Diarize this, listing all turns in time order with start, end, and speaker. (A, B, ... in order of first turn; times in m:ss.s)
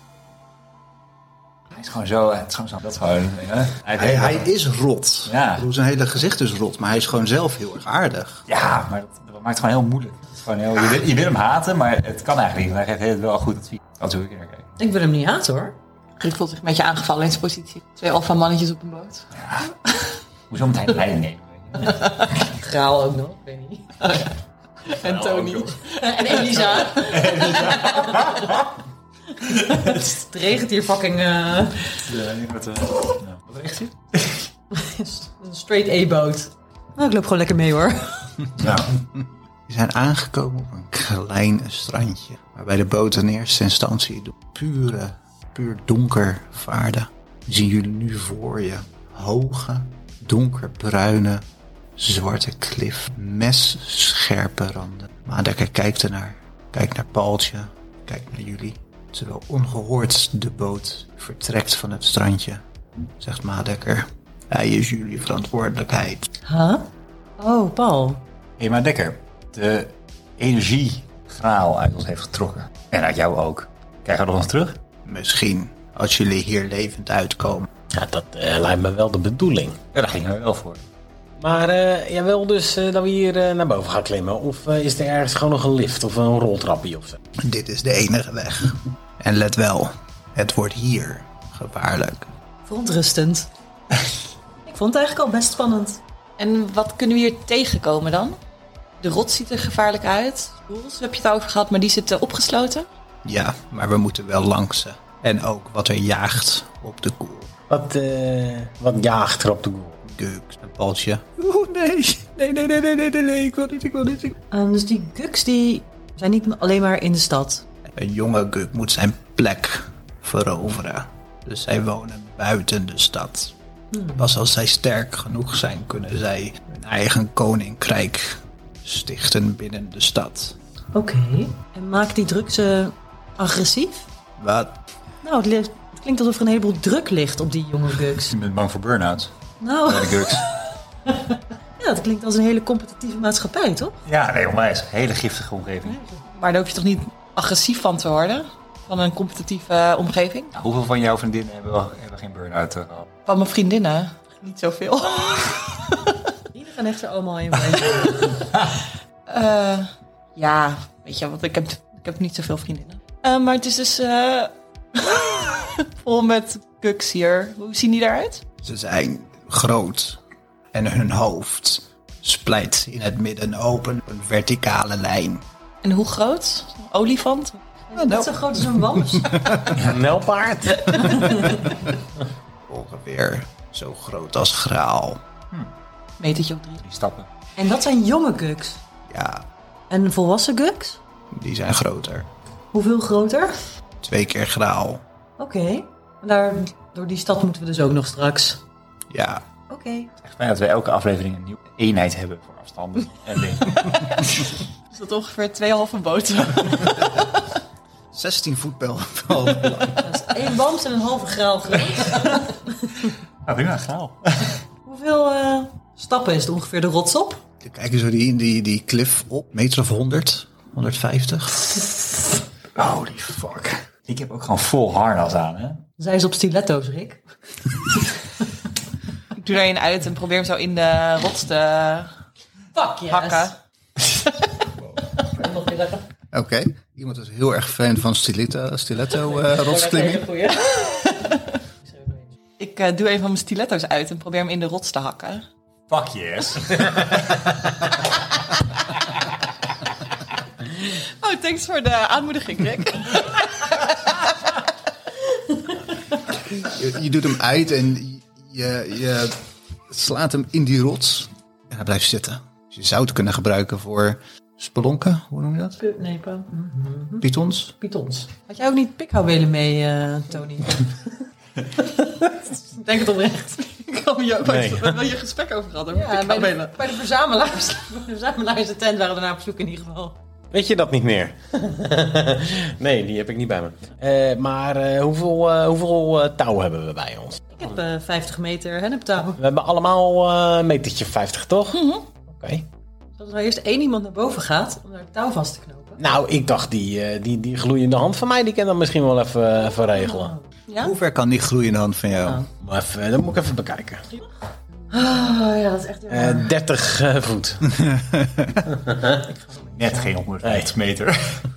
0:01.7-0:04.5 A
0:04.0-0:08.4 B
0:05.3-0:05.7 A
0:08.5-0:14.7 A
0:14.8-0:15.8 C
0:16.2-0:19.3 D
0:19.3-0:19.7 A
0:20.5-0:22.0 A
0:22.0-0:22.2 D
0:22.5-0:24.0 C
0:24.0-0:24.3 D
0:24.9-0:26.3 D
0:24.9-0:25.8 A
0:26.0-0:28.5 C
0:26.8-0:28.6 A
0:29.4-0:32.0 C
0:32.0-0:34.4 A
0:34.7-0:38.4 C
0:38.6-0:38.9 A
0:39.0-0:51.4 B
0:52.0-1:02.6 B
1:03.2-1:06.3 B
1:06.4-1:08.2 C
1:08.6-1:14.8 A
1:15.0-1:17.7 B
1:17.9-1:19.8 E
1:19.9-1:20.8 A
1:21.4-1:27.2 E
1:27.4-1:32.3 B
1:32.6-1:33.5 C
1:34.7-1:36.0 C
1:36.4-1:38.4 D
1:39.0-1:42.9 D
1:43.2-1:47.5 B
1:47.7-1:50.0 E
1:50.0-1:54.4 B
1:54.5-1:57.6 C
1:57.9-2:03.5 B
2:03.9-2:04.3 C
2:04.2-2:10.6 B
2:10.9-2:14.1 C
2:14.4-2:14.8 B
2:15.2-2:18.3 C
2:18.3-2:19.3 A
2:19.6-2:20.5 C
2:19.8-2:20.5 A
2:21.8-2:24.0 C
2:24.0-2:26.0 A
2:26.3-2:30.5 D
2:30.5-2:33.1 A
2:33.3-2:36.2 D
2:36.5-2:38.5 C
2:39.3-2:48.4 D
2:48.6-2:50.2 B
2:50.7-2:55.4 B
2:55.8-2:57.6 D
2:57.9-2:59.7 C
2:58.0-2:59.8 B
2:59.7-3:00.0 A
2:59.7-3:01.4 E
3:01.1-3:01.7 C
3:02.7-3:05.2 B
3:06.2-3:06.8 D
3:06.8-3:07.3 A
3:07.6-3:08.8 C
3:09.1-3:09.5 B
3:09.9-3:11.0 C
3:11.3-3:12.3 B
3:12.7-3:13.6 C
3:14.0-3:15.0 B
3:15.4-3:18.6 C
3:19.1-3:19.4 B
3:19.7-3:20.1 C
3:20.2-3:24.2 A
3:24.9-3:27.5 D
3:28.1-3:30.1 B
3:30.0-3:32.7 C
3:33.4-3:34.6 A
3:34.8-3:37.4 C
3:37.6-3:41.7 B
3:42.8-3:45.8 A
3:46.0-3:47.2 C
3:49.4-3:52.1 D
3:52.8-3:53.5 C
3:53.1-3:53.6 D
3:55.3-3:56.0 C
3:56.3-4:00.3 B
3:59.2-4:01.1 C
4:00.6-4:01.6 D
4:01.9-4:02.3 C
4:02.6-4:05.4 D
4:05.9-4:07.6 A
4:10.8-4:14.3 D
4:16.6-4:25.8 B
4:25.8-4:27.3 C
4:27.2-4:27.7 B
4:27.8-4:31.0 C
4:32.2-4:33.7 C
4:33.7-4:36.8 D
4:34.4-4:35.0 E
4:35.9-4:40.2 C
4:40.5-4:47.5 E
4:47.5-4:49.4 C
4:49.3-4:52.7 E
4:51.7-4:52.1 D
4:53.2-4:56.0 C
4:56.0-5:00.4 E
5:00.0-5:00.4 C
5:00.7-5:01.0 D
5:00.8-5:02.4 B
5:02.2-5:02.5 C
5:02.6-5:04.0 E
5:04.9-5:06.5 C
5:06.1-5:07.8 E
5:07.7-5:08.6 B
5:08.7-5:09.2 E
5:09.7-5:11.4 A
5:10.4-5:10.7 E